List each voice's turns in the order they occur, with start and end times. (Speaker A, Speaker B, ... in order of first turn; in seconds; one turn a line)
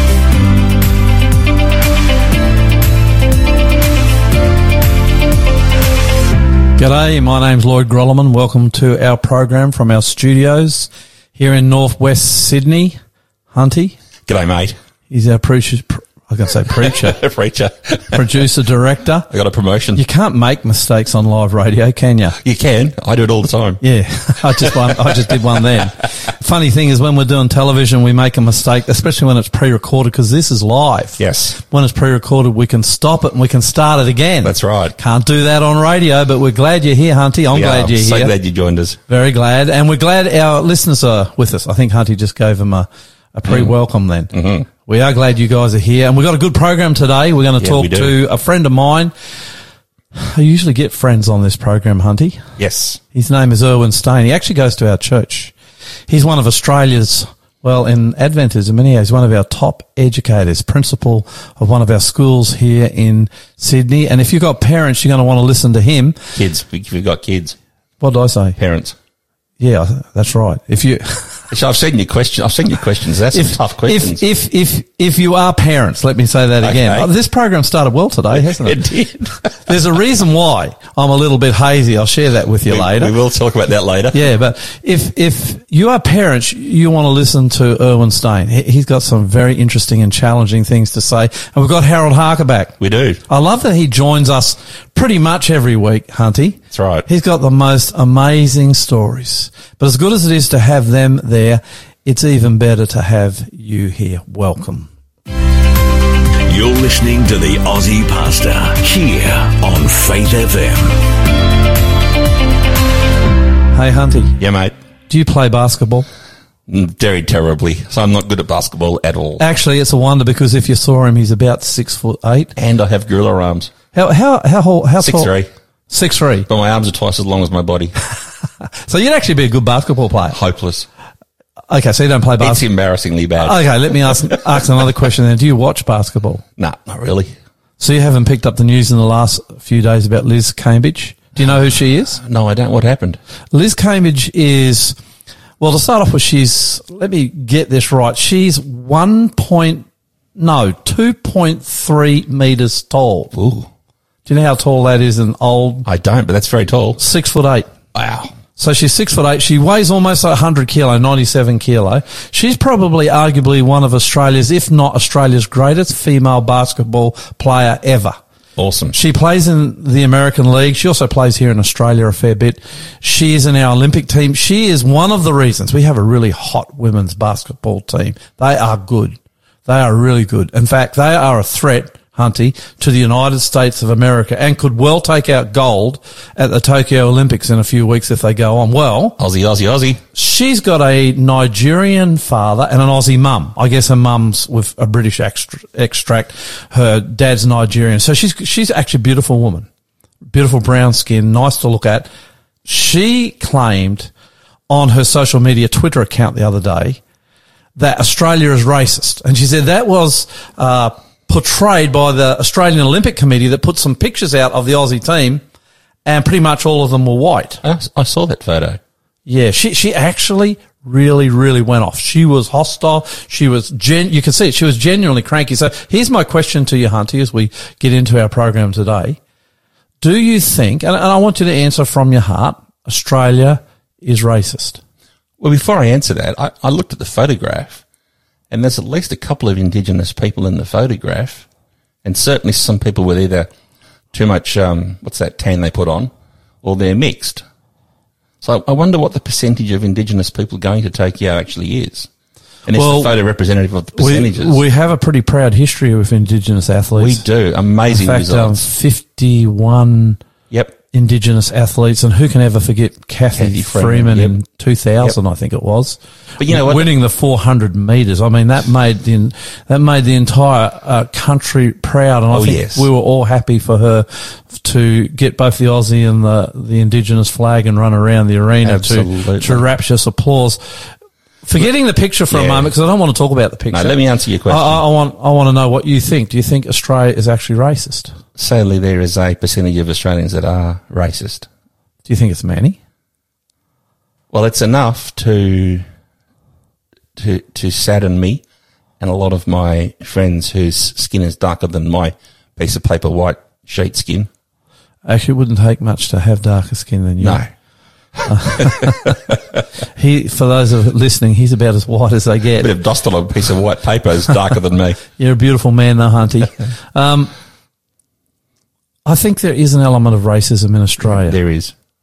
Speaker A: 6.8-13.0
Speaker A: 13.5-13.9
Speaker B: 14.3-14.8
Speaker A: 15.1-17.2
Speaker B: 16.8-18.2
Speaker A: 18.1-19.3
Speaker B: 19.3-20.0
Speaker A: 19.9-22.4
Speaker B: 22.4-23.8
Speaker A: 23.8-38.3
Speaker B: 31.2-31.6
Speaker B: 34.4-34.9
Speaker B: 37.5-39.0
Speaker A: 39.1-44.3
Speaker B: 44.3-44.7
Speaker A: 44.9-49.1
Speaker B: 47.6-48.1
Speaker A: 50.1-52.4
Speaker B: 52.6-53.0
Speaker A: 53.1-55.5
Speaker A: 56.1-66.2
Speaker B: 66.3-67.5
Speaker A: 68.0-68.6
Speaker B: 68.6-69.0
Speaker A: 69.6-71.5
Speaker B: 71.5-74.2
Speaker A: 73.3-78.8
Speaker B: 76.6-77.1
Speaker B: 78.3-79.5
Speaker A: 79.7-83.1
Speaker B: 82.7-84.3
Speaker A: 84.1-92.7
Speaker B: 92.8-93.2
Speaker A: 93.3-104.9
Speaker B: 96.7-97.0
Speaker C: 106.5-110.9
Speaker A: 113.7-114.4
Speaker B: 114.4-114.7
Speaker A: 115.1-116.0
Speaker B: 116.7-119.4
Speaker A: 119.4-122.5
Speaker B: 122.5-123.7
Speaker A: 123.9-125.3
Speaker B: 125.0-125.5
Speaker A: 125.9-126.5
Speaker B: 126.5-127.9
Speaker A: 128.9-130.3
Speaker B: 130.3-130.9
Speaker A: 131.7-132.6
Speaker B: 132.4-133.6
Speaker A: 133.4-136.4
Speaker B: 136.6-137.3
Speaker A: 137.8-142.2
Speaker B: 142.2-143.2
Speaker A: 143.5-144.9
Speaker A: 145.6-149.8
Speaker A: 150.4-153.3
Speaker B: 153.3-153.7
Speaker A: 154.3-155.8
Speaker B: 155.8-157.0
Speaker A: 157.0-157.7
Speaker B: 157.9-158.3
Speaker A: 158.6-168.2
Speaker B: 168.6-168.9
Speaker A: 168.9-189.2
Speaker B: 189.2-190.0
Speaker A: 190.2-199.7
Speaker A: 200.3-202.1
Speaker A: 202.7-204.1
Speaker A: 204.7-207.0
Speaker A: 207.8-215.4
Speaker A: 216.0-217.6
Speaker B: 217.6-218.8
Speaker A: 219.3-229.2
Speaker A: 230.0-234.8
Speaker B: 235.4-237.8
Speaker B: 238.5-241.4
Speaker B: 242.0-243.5
Speaker B: 244.1-246.1
Speaker B: 246.6-247.4
Speaker B: 248.4-252.1
Speaker B: 252.7-254.6
Speaker A: 252.8-253.1
Speaker A: 254.0-257.2
Speaker B: 257.0-258.6
Speaker A: 257.9-260.2
Speaker A: 260.9-280.9
Speaker B: 263.4-264.3
Speaker B: 266.4-266.9
Speaker B: 272.3-272.9
Speaker B: 278.6-279.7
Speaker A: 281.4-284.0
Speaker B: 282.3-282.7
Speaker B: 283.7-284.8
Speaker A: 284.5-288.1
Speaker B: 288.4-291.5
Speaker A: 292.1-292.8
Speaker B: 294.3-295.9
Speaker B: 297.1-298.4
Speaker B: 299.0-304.3
Speaker A: 305.0-307.4
Speaker B: 307.2-307.5
Speaker B: 308.2-308.7
Speaker A: 308.3-309.0
Speaker A: 309.9-312.7
Speaker B: 312.6-315.0
Speaker A: 315.2-317.3
Speaker A: 319.0-321.4
Speaker B: 321.1-321.7